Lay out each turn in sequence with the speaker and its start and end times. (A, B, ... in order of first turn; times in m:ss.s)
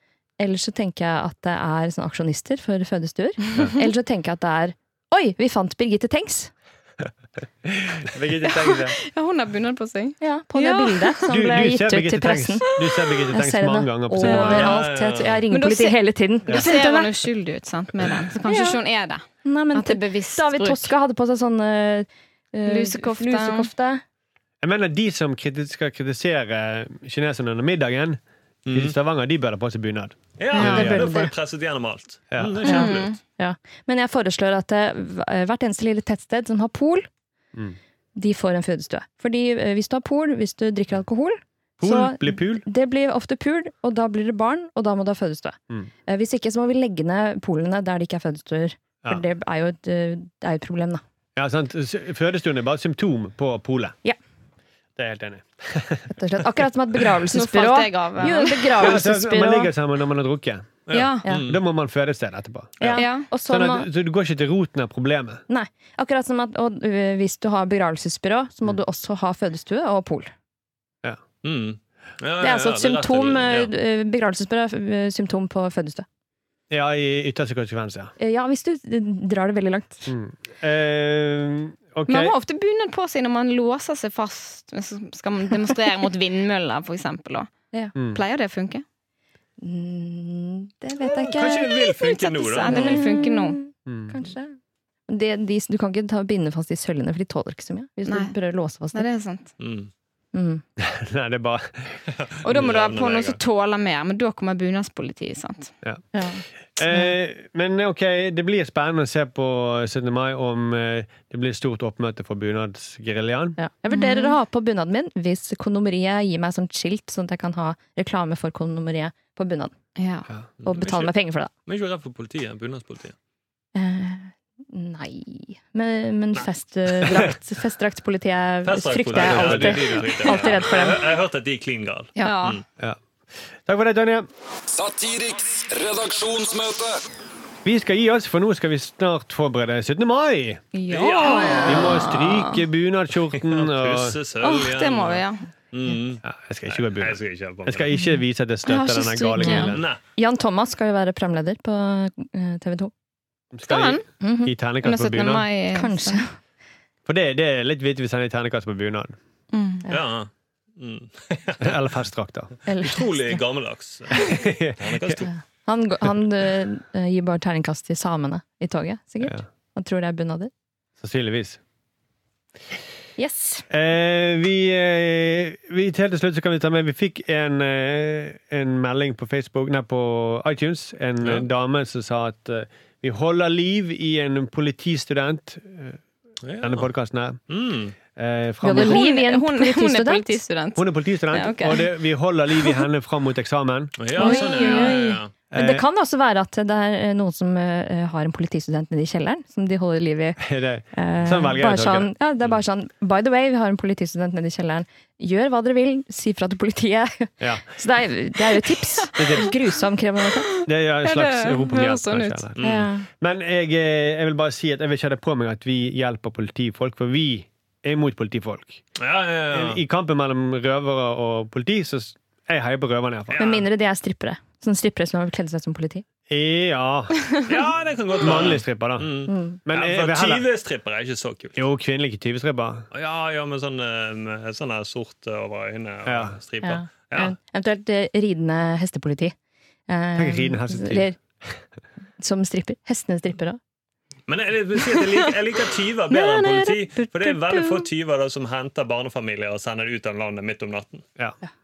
0:00.4-0:06.5 A
0:07.6-0:09.0 B
0:08.4-0:11.2 C
0:10.2-0:12.7 A
0:11.3-0:14.8 B
0:13.3-0:17.1 A
0:14.2-0:15.4 D
0:14.3-0:14.8 C
0:15.5-0:16.0 C
0:16.5-0:20.9 C
0:18.5-0:18.8 A
0:19.4-0:24.0 A
0:22.6-0:23.7 C
0:24.6-0:28.2 B
0:28.6-0:28.9 D
0:28.7-0:31.2 B
0:30.4-0:33.2 D
0:30.5-0:31.3 A
0:32.3-0:32.9 B
0:32.6-0:33.2 C
0:33.4-0:37.1 A
0:38.1-0:51.0 A
0:41.8-0:42.6 B
0:51.4-0:54.0 B
0:55.0-0:57.0 B
0:56.1-0:59.7 A
0:57.3-0:58.9 C
0:58.8-1:00.8 B
1:00.9-1:01.6 D
1:00.9-1:01.2 C
1:01.4-1:03.0 B
1:02.8-1:03.0 D
1:02.8-1:03.9 A
1:03.0-1:03.3 C
1:03.5-1:05.4 B
1:05.5-1:10.3 A
1:11.4-1:13.7 D
1:12.4-1:16.0 A
1:16.7-1:18.1 B
1:18.2-1:20.1 A
1:20.1-1:22.3 B
1:22.1-1:27.5 C
1:27.9-1:28.2 B
1:28.1-1:28.8 C
1:29.6-1:31.8 A
1:31.0-1:33.1 D
1:31.7-1:33.6 C
1:32.6-1:34.6 A
1:33.8-1:34.1 B
1:35.1-1:39.1 A
1:38.1-1:38.3 C
1:38.9-1:39.5 C
1:39.6-1:39.9 D
1:40.3-1:40.6 A
1:40.8-1:42.0 B
1:42.2-1:43.4 D
1:42.4-1:45.7 C
1:46.1-1:47.1 A
1:46.7-1:53.6 B
1:53.6-1:59.7 A
1:53.9-1:54.4 C
2:00.0-2:00.3 C
2:00.6-2:01.1 D
2:00.6-2:01.5 A
2:01.6-2:03.1 D
2:03.7-2:11.1 A
2:08.6-2:12.6 D
2:09.1-2:10.4 B
2:12.2-2:12.6 C
2:13.6-2:14.3 B
2:14.7-2:17.0 E
2:17.6-2:20.6 B
2:20.7-2:22.6 C
2:20.9-2:22.1 D
2:21.6-2:24.2 B
2:23.3-2:27.9 D
2:24.4-2:25.4 C
2:26.2-2:29.8 B
2:28.6-2:29.7 C
2:29.4-2:32.9 A
2:29.7-2:30.0 D
2:33.5-2:35.5 B
2:33.6-2:34.0 C
2:34.2-2:34.5 A
2:34.8-2:36.2 C
2:35.7-2:36.4 A
2:37.0-2:39.2 B
2:39.5-2:39.8 C
2:39.9-2:41.8 D
2:41.6-2:42.5 B
2:42.6-2:43.3 A
2:42.8-2:45.3 D
2:44.2-2:45.2 B
2:45.2-2:50.5 A
2:51.0-2:51.6 B
2:53.2-2:53.6 A
2:53.7-3:06.0 B
3:01.2-3:01.4 D
3:06.4-3:06.9 D
3:06.6-3:07.4 B
3:07.5-3:07.9 D
3:08.1-3:09.0 B
3:08.6-3:10.4 A
3:08.7-3:11.9 C
3:10.7-3:14.0 B
3:14.0-3:15.3 D
3:14.2-3:15.0 C
3:14.2-3:30.5 A
3:15.5-3:15.8 B
3:20.4-3:22.1 B
3:27.4-3:27.7 B
3:29.2-3:29.5 B
3:30.6-3:32.5 C
3:30.6-3:38.8 B
3:32.6-3:32.9 D
3:32.6-3:33.1 A
3:39.0-3:39.8 D
3:39.5-3:43.4 B
3:43.3-3:43.6 D
3:43.4-3:46.0 A
3:46.3-3:47.2 B
3:47.4-3:51.6 D
3:48.2-3:50.4 B
3:49.3-3:49.6 A
3:51.6-3:52.9 B
3:52.9-3:57.3 D
3:56.0-3:56.4 B
3:56.6-3:59.3 A
3:59.9-4:01.2 A
4:00.1-4:01.6 B
4:02.2-4:03.6 A
4:04.3-4:11.0 D
4:06.2-4:07.8 A